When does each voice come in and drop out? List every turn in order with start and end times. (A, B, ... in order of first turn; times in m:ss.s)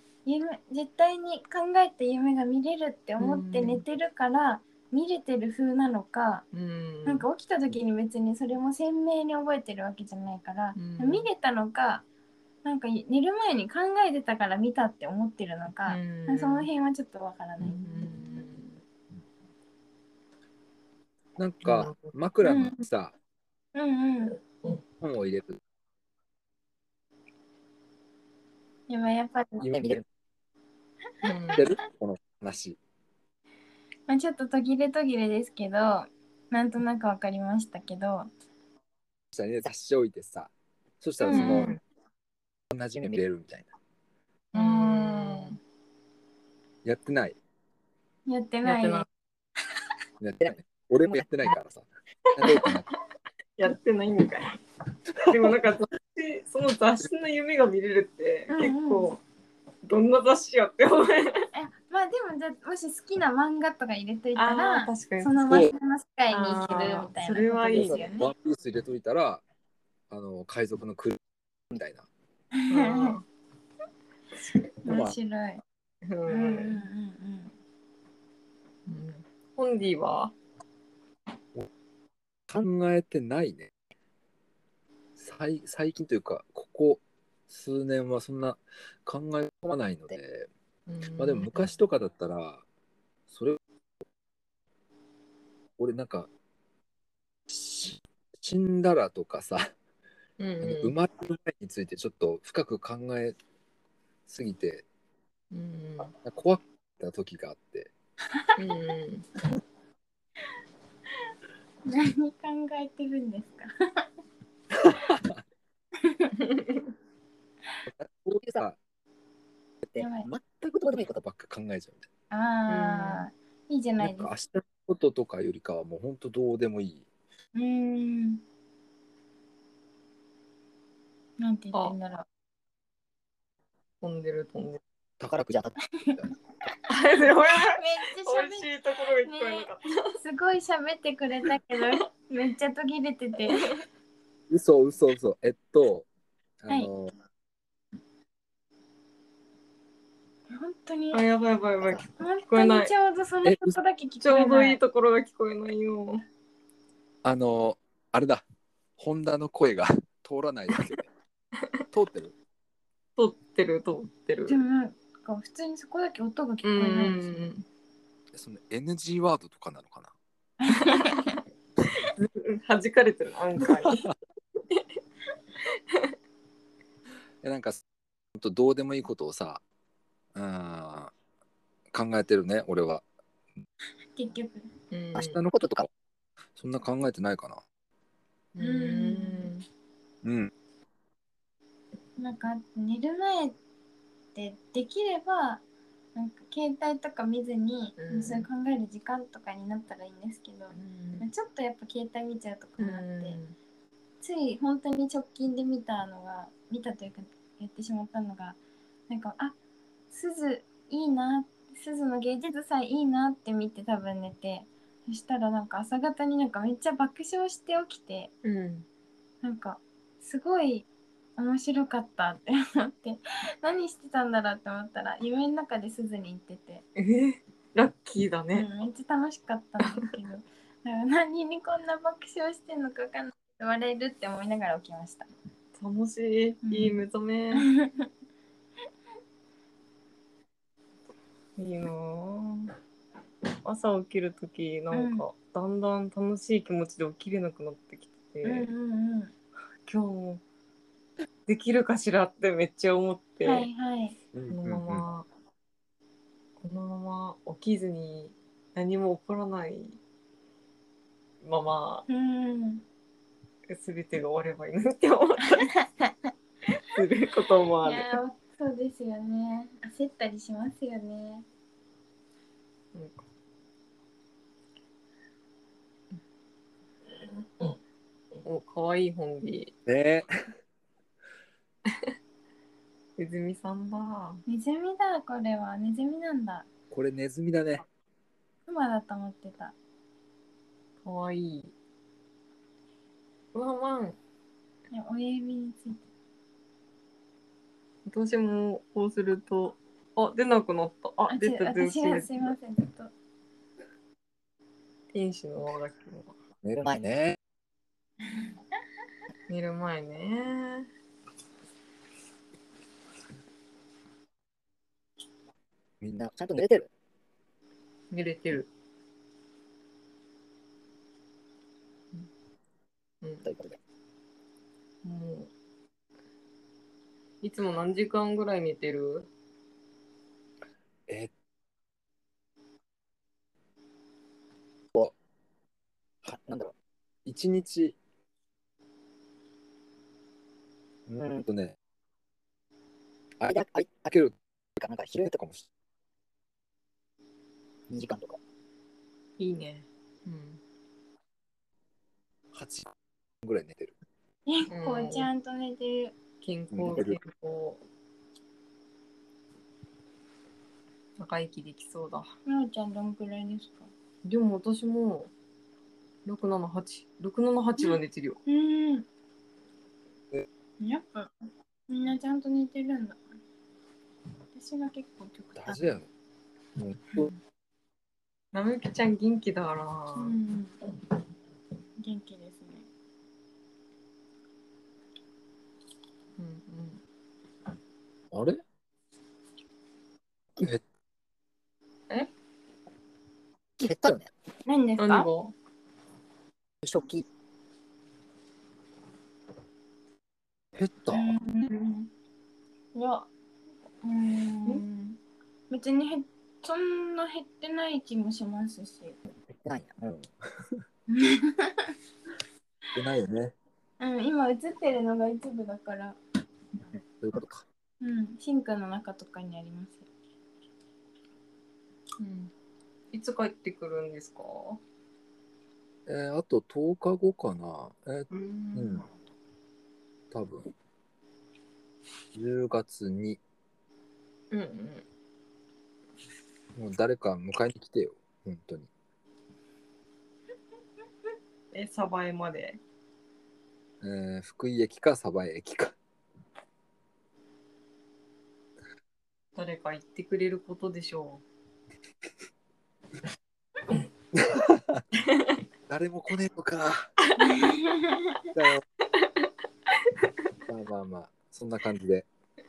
0:00.2-0:06.4 A
0:03.2-0:03.8 B
0:06.5-0:07.2 B
0:07.1-0:12.0 A
0:10.8-0:11.3 B
0:12.6-0:18.5 A
0:15.9-0:16.7 B
0:17.6-0:18.8 B
0:21.4-0:23.1 C
0:21.6-0:22.0 B
0:22.4-0:22.8 A
0:23.8-0:24.4 A
0:25.0-0:25.6 C
0:28.9-0:29.7 A
0:29.6-0:30.0 C
0:29.7-0:30.0 D
0:31.2-0:31.6 B
0:31.6-0:32.8 C
0:34.1-0:38.3 A
0:39.3-0:41.8 C
0:41.2-0:41.8 B
0:41.2-0:41.8 A
0:42.7-0:43.7 C
0:43.0-0:43.2 D
0:44.5-0:45.6 A
0:44.5-0:45.6 B
0:46.8-0:47.4 C
0:48.3-0:49.1 A
0:48.6-0:49.1 B
0:50.2-0:52.9 C
0:52.4-0:52.7 B
0:53.6-0:54.6 B
0:55.2-0:59.2 B
0:58.5-0:59.1 A
0:59.8-1:01.4 B
1:01.5-1:08.3 A
1:04.4-1:05.4 B
1:05.4-1:05.7 C
1:06.3-1:08.2 B
1:07.7-1:09.4 C
1:10.1-1:11.2 C
1:11.7-1:12.1 C
1:12.6-1:13.2 A
1:12.7-1:13.2 B
1:14.7-1:15.6 A
1:14.9-1:15.2 C
1:16.1-1:16.8 B
1:16.3-1:17.5 A
1:18.9-1:20.3 B
1:22.5-1:23.7 C
1:25.2-1:30.5 C
1:29.7-1:30.2 D
1:30.9-1:31.8 B
1:31.2-1:32.6 C
1:33.3-1:33.6 C
1:35.8-1:36.3 C
1:37.5-1:39.7 C
1:40.4-1:41.0 B
1:40.6-1:43.4 C
1:44.3-1:44.8 C
1:45.5-1:46.1 B
1:46.2-1:47.9 C
1:48.6-1:49.3 B
1:51.9-1:54.1 A
1:54.8-1:55.4 C
1:56.0-1:56.3 A
1:56.4-1:56.8 B
1:57.9-1:58.8 C
1:59.8-2:01.2 D
2:00.0-2:00.3 A
2:00.6-2:02.1 C
2:02.3-2:04.3 A
2:02.7-2:03.3 B
2:04.0-2:07.0 C
2:07.6-2:08.4 A
2:11.4-2:12.3 A
2:14.0-2:14.8 B
2:15.2-2:15.8 D
2:16.9-2:20.0 B
2:17.7-2:23.8 A
2:24.5-2:26.1 C
2:26.6-2:27.1 C
2:30.5-2:31.2 A
2:31.1-2:32.9 B
2:31.9-2:34.8 A
2:33.4-2:33.8 C
2:34.2-2:36.2 B
2:37.2-2:38.4 C
2:39.0-2:41.1 C
2:41.9-2:42.3 C
2:43.2-2:44.6 B
2:44.5-2:47.5 A
2:46.6-2:47.6 B
2:48.3-2:50.1 C
2:50.6-2:51.4 A
2:52.2-2:54.1 B
2:57.4-2:57.8 C
2:58.4-2:59.6 C
3:00.4-3:01.1 C
3:01.9-3:03.0 C
3:04.2-3:04.7 A
3:04.9-3:05.4 B
3:05.2-3:05.9 C
3:05.5-3:05.8 D
3:06.6-3:07.6 C
3:08.6-3:09.6 B
3:08.6-3:09.5 A
3:10.2-3:10.5 C
3:12.2-3:13.6 A
3:14.4-3:15.6 A
3:16.2-3:23.4 A
3:18.0-3:18.5 B
3:20.7-3:21.3 B
3:22.8-3:23.6 B
3:24.2-3:28.6 A
3:29.1-3:29.6 A
3:30.1-3:38.3 A
3:38.4-3:38.8 B
3:39.4-3:46.8 A
3:47.0-3:48.7 B
3:48.5-3:55.3 A
3:55.8-3:57.7 B
3:56.7-3:57.0 A
3:57.6-3:58.1 A
4:01.6-4:02.7 B
4:03.6-4:08.7 B
4:04.9-4:05.2 A
4:08.4-4:09.3 A
4:09.9-4:10.4 B
4:11.5-4:13.7 B
4:13.4-4:14.2 A
4:14.3-4:15.0 C
4:14.5-4:15.3 B
4:16.6-4:20.0 B
4:21.4-4:22.0 B
4:22.1-4:22.8 A
4:23.7-4:25.7 B
4:25.7-4:26.3 A
4:26.7-4:28.2 B
4:27.8-4:31.4 A
4:32.9-4:33.2 B
4:38.4-4:39.7 B
4:39.9-4:40.5 C
4:43.2-4:44.4 B
4:44.5-4:46.7 A
4:46.9-4:47.8 C
4:48.7-4:49.8 A
4:51.0-4:51.7 B
4:53.5-4:54.2 B
4:54.9-4:56.0 A
4:58.1-5:02.5 B
5:01.3-5:03.1 A
5:05.1-5:06.3 B
5:06.6-5:07.4 C
5:06.8-5:07.1 D
5:09.5-5:10.9 B
5:16.0-5:16.8 C
5:16.2-5:16.9 D
5:18.1-5:18.7 B
5:23.2-5:23.5 B
5:23.4-5:23.8 D
5:25.0-5:25.5 B
5:27.4-5:29.3 B
5:31.1-5:31.3 C
5:36.3-5:36.7 D
5:37.3-5:38.0 C
5:41.1-5:41.8 C
5:41.2-5:41.4 D
5:43.4-5:44.4 C
5:43.5-5:44.1 D
5:44.8-5:45.4 D
5:45.2-5:45.6 C
5:47.9-5:48.4 D
5:49.4-5:50.6 B
5:52.5-5:52.9 C
5:53.4-5:53.9 C
5:54.5-5:56.2 A
5:54.7-5:55.3 B
5:56.4-5:57.8 B
5:56.7-5:57.2 C
6:01.2-6:02.3 B
6:02.5-6:03.9 A
6:04.2-6:05.3 B
6:06.3-6:08.4 B
6:07.8-6:09.1 A
6:10.8-6:11.3 A
6:11.9-6:13.2 A
6:14.5-6:16.0 A
6:15.6-6:16.1 C
6:16.8-6:17.3 C
6:18.5-6:20.4 B
6:20.2-6:20.8 A
6:22.0-6:22.9 A
6:26.4-6:27.0 B
6:28.3-6:28.6 C
6:30.6-6:30.8 C
6:33.8-6:34.3 D
6:34.7-6:35.3 A
6:35.0-6:35.5 B
6:36.8-6:37.2 D
6:40.8-6:41.3 C
6:41.1-6:42.1 A
6:42.9-6:43.3 A
6:44.0-6:44.8 A
6:44.7-6:45.2 B
6:45.7-6:49.2 A
6:49.6-6:50.2 D
6:50.1-6:50.8 C
6:51.1-6:51.9 A
6:52.9-6:53.6 C
6:54.0-6:56.2 A
6:57.2-6:57.6 C
6:58.0-7:00.1 A
7:02.2-7:02.5 B
7:03.1-7:04.8 B
7:06.1-7:09.0 C
7:08.3-7:09.0 B
7:10.3-7:10.7 C
7:12.4-7:13.4 C
7:14.5-7:15.0 B
7:16.8-7:18.9 C
7:21.7-7:22.8 B
7:24.0-7:26.0 C
7:29.6-7:31.4 B
7:34.3-7:35.0 C
7:35.9-7:37.1 C
7:37.4-7:38.5 A
7:38.6-7:38.8 C
7:40.7-7:42.3 C